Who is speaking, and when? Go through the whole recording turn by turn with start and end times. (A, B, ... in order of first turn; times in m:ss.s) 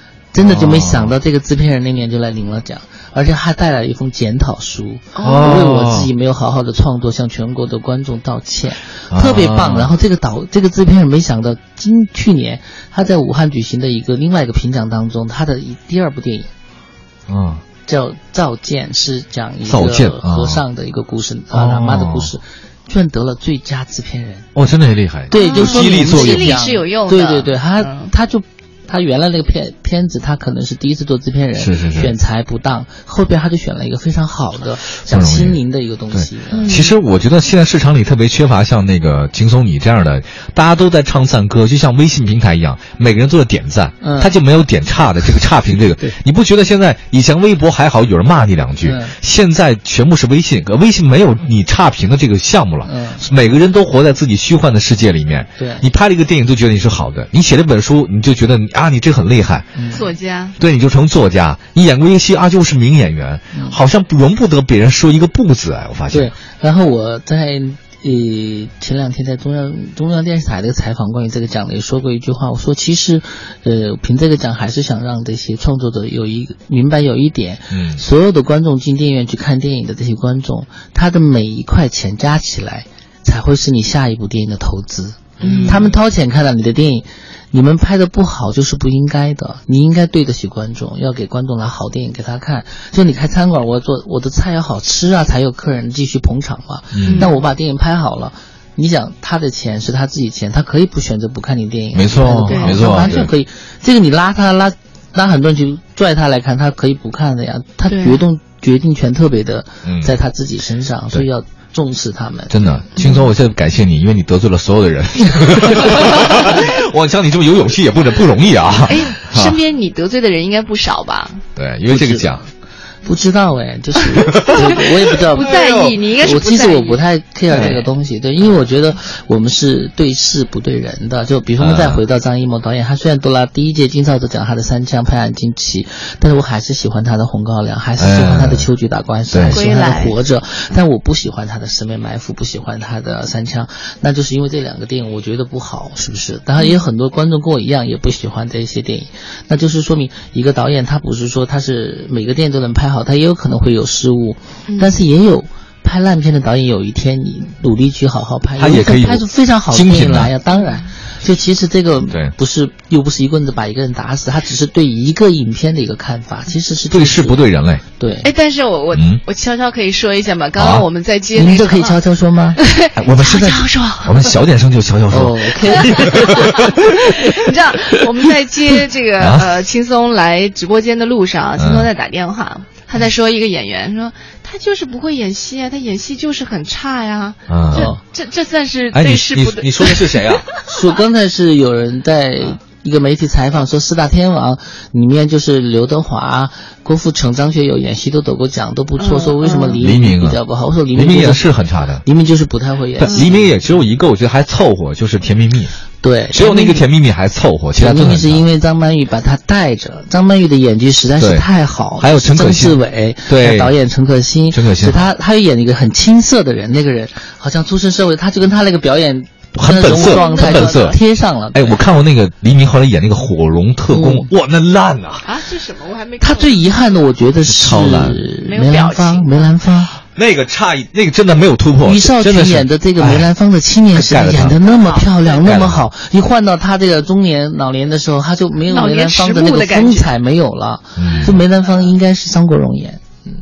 0:00.3-0:16.5 A
0:00.4-0:01.1 B
0:05.1-0:05.6 C
0:05.2-0:06.1 B
0:09.1-0:09.9 B
0:17.3-0:17.6 B
0:17.8-0:24.5 A
0:19.7-0:20.6 B
0:21.5-0:22.3 B
0:24.5-0:26.6 B
0:25.3-0:36.8 A
0:25.4-0:28.1 C
0:31.6-0:32.1 B
0:35.1-0:35.6 B
0:36.1-0:59.7 B
0:36.5-0:36.9 C
0:44.0-0:44.3 A
0:48.8-0:49.1 A
0:52.8-0:53.2 A
0:55.6-0:55.8 A
0:59.7-1:00.1 A
0:59.9-1:00.5 C
1:00.6-1:06.3 B
1:06.1-1:52.6 A
1:17.7-1:18.0 B
1:25.4-1:25.9 C
1:25.4-1:26.0 B
1:36.9-1:37.3 B
1:37.0-1:37.3 C
1:41.9-1:43.3 B
1:42.4-1:43.2 C
1:47.9-1:48.2 C
1:49.8-1:50.1 B
1:52.5-1:59.6 B
1:53.0-1:53.2 C
1:58.8-2:01.4 C
2:01.6-2:02.4 B
2:01.9-2:02.3 A
2:03.0-2:05.6 A
2:04.3-2:04.8 B
2:04.6-2:07.0 C
2:05.4-2:06.0 B
2:06.2-2:47.4 A
2:07.5-2:07.8 B
2:11.6-2:12.0 B
2:18.0-2:18.7 B
2:19.3-2:19.6 B
2:19.5-2:20.2 C
2:34.7-2:35.0 C
2:38.6-2:40.3 B
2:40.5-2:40.8 C
2:46.9-2:47.8 B
2:48.0-2:48.3 A
2:48.2-2:52.0 C
2:48.9-2:49.2 B
2:50.6-2:50.8 B
2:51.3-2:52.6 A
2:52.6-2:54.3 C
2:53.0-2:56.9 B
2:55.1-2:56.6 A
2:56.1-3:10.6 C
2:59.2-2:59.5 B
3:01.6-3:01.9 B
3:07.5-3:08.0 B
3:08.9-3:10.5 B
3:10.7-3:23.6 A
3:19.0-3:19.8 C
3:19.8-3:20.4 B
3:20.9-3:22.0 B
3:23.0-3:25.7 B
3:26.0-3:26.8 A
3:26.3-3:28.4 B
3:27.8-3:42.0 A
3:31.2-3:31.4 B
3:32.0-3:33.7 B
3:34.5-3:35.1 B
3:39.5-3:41.0 B
3:39.9-3:40.9 C
3:41.5-3:45.3 B
3:43.9-3:44.3 A
3:45.2-3:46.8 C
3:46.2-3:49.9 A
3:47.4-3:48.2 B
3:48.4-3:49.5 C
3:50.1-3:53.3 B
3:51.8-4:03.2 A
3:53.9-3:54.5 B
3:54.8-3:55.4 C
3:55.4-3:55.8 B
3:58.7-4:00.1 C
4:01.0-4:01.4 B